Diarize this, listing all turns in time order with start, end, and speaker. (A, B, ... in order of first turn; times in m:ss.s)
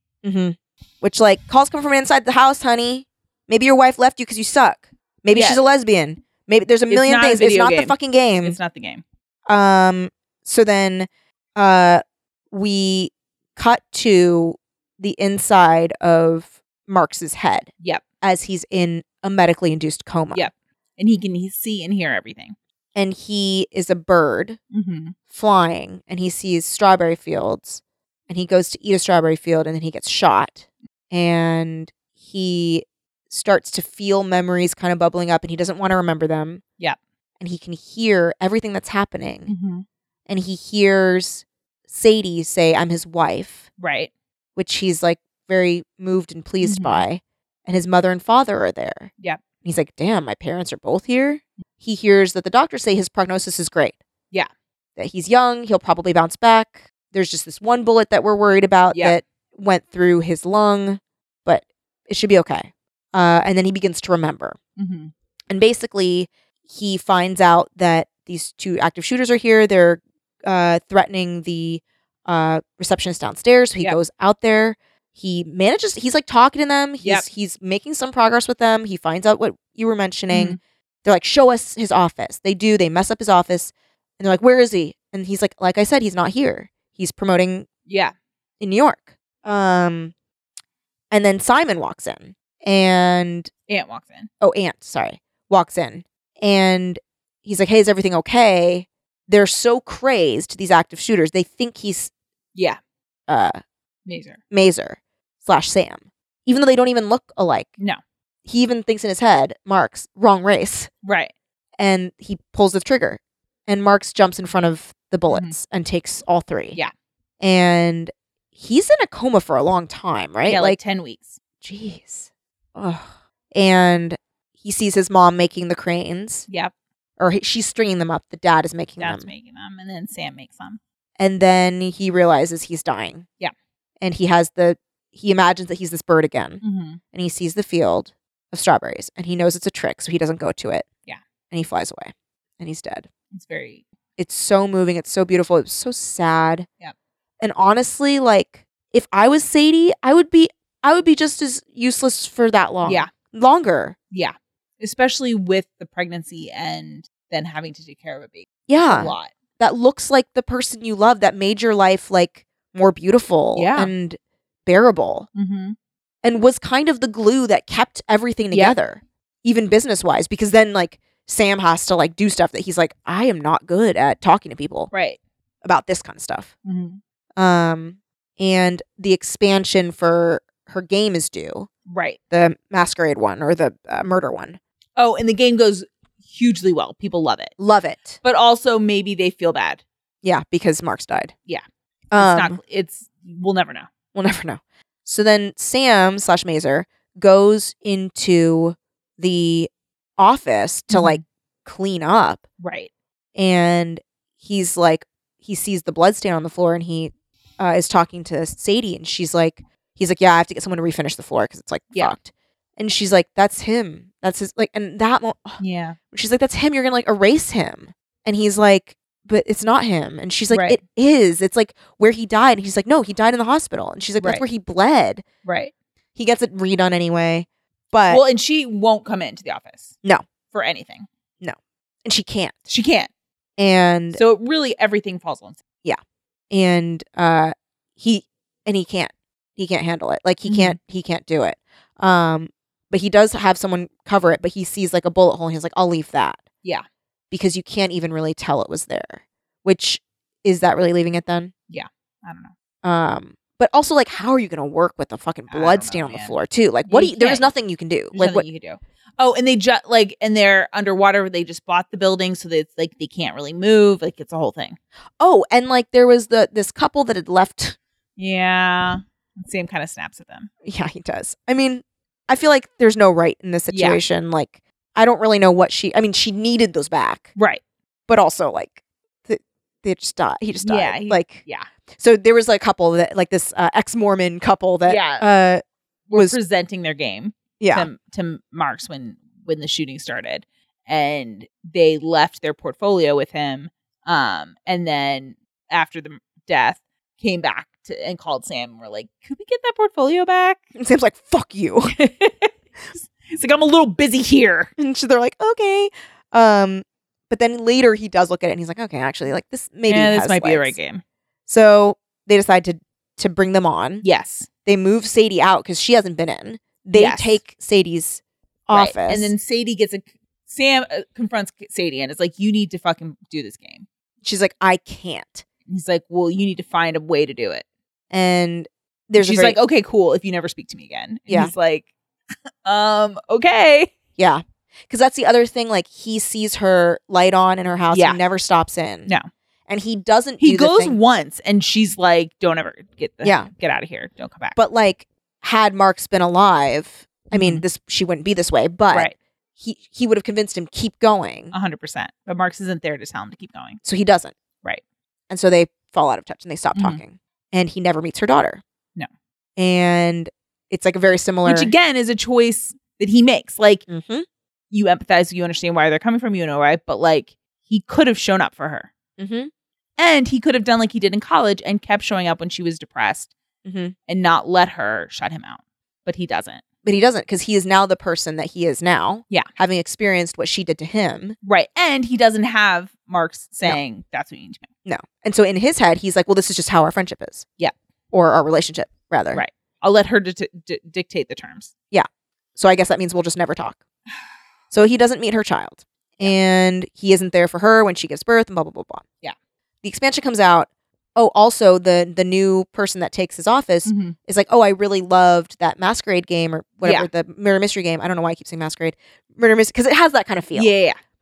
0:00.2-0:08.6 A
0:05.3-0:05.6 B
0:06.9-0:09.0 B
0:09.5-0:17.7 A
0:18.2-0:20.5 A
0:20.3-0:22.6 B
0:23.0-0:24.6 A
0:24.7-0:25.2 B
0:25.3-0:36.6 A
0:37.4-0:39.5 A
0:39.5-0:39.8 B
0:40.3-0:43.7 A
0:43.8-0:44.1 B
0:44.6-0:49.1 A
0:46.6-0:47.0 B
0:49.6-0:54.0 A
0:55.0-1:04.6 A
0:58.9-0:59.2 B
1:04.8-1:05.1 B
1:05.5-1:27.7 A
1:20.3-1:20.6 B
1:27.9-1:28.1 B
1:28.6-1:30.1 A
1:31.1-1:33.5 A
1:33.7-1:34.3 B
1:34.4-1:42.1 A
1:43.3-1:43.6 A
1:44.1-1:44.4 B
1:44.5-1:47.7 A
1:48.5-1:50.9 A
1:51.0-1:51.3 B
1:51.8-1:56.8 A
1:55.3-1:55.6 B
1:57.4-2:00.8 A
2:00.5-2:01.4 B
2:01.6-2:06.5 A
2:07.2-2:09.3 A
2:09.0-2:10.8 B
2:11.2-2:13.3 A
2:14.0-2:16.6 A
2:16.6-2:17.0 B
2:17.1-2:20.9 A
2:21.5-2:23.1 A
2:23.3-2:23.8 B
2:24.2-2:26.7 A
2:27.4-2:34.0 A
2:32.8-2:33.1 B
2:34.1-2:39.3 B
2:38.7-2:45.3 A
2:43.6-2:43.9 B
2:45.4-2:45.8 B
2:46.2-2:54.9 A
2:54.9-2:55.2 B
2:55.6-2:56.5 A
2:56.6-2:57.0 B
2:57.4-3:01.7 A
3:01.9-3:02.2 B
3:02.3-3:04.6 A
3:05.0-3:07.5 B
3:07.6-3:08.2 A
3:08.2-3:09.8 B
3:10.2-3:11.3 A
3:12.1-3:12.6 A
3:12.2-3:13.9 B
3:14.2-3:22.4 A
3:20.9-3:21.2 B
3:22.6-3:22.9 B
3:23.4-3:35.6 A
3:35.6-3:36.0 B
3:36.1-3:45.2 A
3:40.5-3:40.8 B
3:45.4-3:45.7 B
3:46.2-3:48.2 A
3:48.1-3:49.9 B
3:50.5-3:51.1 B
3:51.4-3:52.6 A
3:52.7-3:53.1 B
3:53.6-3:54.2 A
3:54.1-3:55.6 B
3:56.5-4:06.4 A
4:00.5-4:00.8 B
4:07.3-4:11.5 A
4:11.7-4:12.5 B
4:12.8-4:18.4 A
4:15.5-4:16.3 B
4:16.9-4:17.5 B
4:18.1-4:24.8 B
4:25.2-4:27.8 A
4:28.2-4:30.5 B
4:30.6-4:37.3 A
4:33.7-4:34.0 B
4:37.4-4:37.6 B
4:38.1-4:41.4 A
4:40.6-4:41.7 B
4:42.0-4:45.6 A
4:44.9-4:45.2 B
4:46.1-5:00.6 B
4:47.6-4:47.9 A
5:00.8-5:01.9 A
5:02.0-5:04.7 B
5:04.8-5:10.8 A
5:09.9-5:11.0 B
5:11.5-5:14.0 A
5:14.0-5:14.5 B
5:14.6-5:19.3 A
5:16.9-5:17.4 B
5:18.7-5:23.9 B
5:24.2-5:25.4 A
5:25.7-5:27.6 B
5:28.1-5:29.6 A
5:29.2-5:31.9 B
5:32.6-5:33.9 B
5:34.2-5:39.1 A
5:37.9-5:38.2 B
5:39.7-5:41.0 A
5:40.4-5:44.6 B
5:43.2-5:43.5 A
5:44.6-5:51.5 A
5:47.3-5:47.6 B
5:51.5-5:53.8 B
5:53.8-5:54.3 A
5:55.3-5:58.6 A
5:56.7-5:57.0 B
5:59.6-6:01.7 A
6:01.4-6:03.8 B
6:03.9-6:04.3 A
6:04.7-6:08.9 B
6:09.2-6:09.5 A
6:10.0-6:13.3 B
6:13.6-6:14.0 A
6:14.1-6:16.6 B
6:16.8-6:21.4 A
6:21.4-6:24.7 B
6:24.8-6:27.4 A
6:28.1-6:29.4 A
6:29.3-6:31.7 B
6:31.9-6:33.8 A
6:34.7-6:39.0 A
6:39.8-6:50.7 A
6:43.8-6:44.2 B
6:46.8-6:47.1 B
6:50.5-6:51.0 B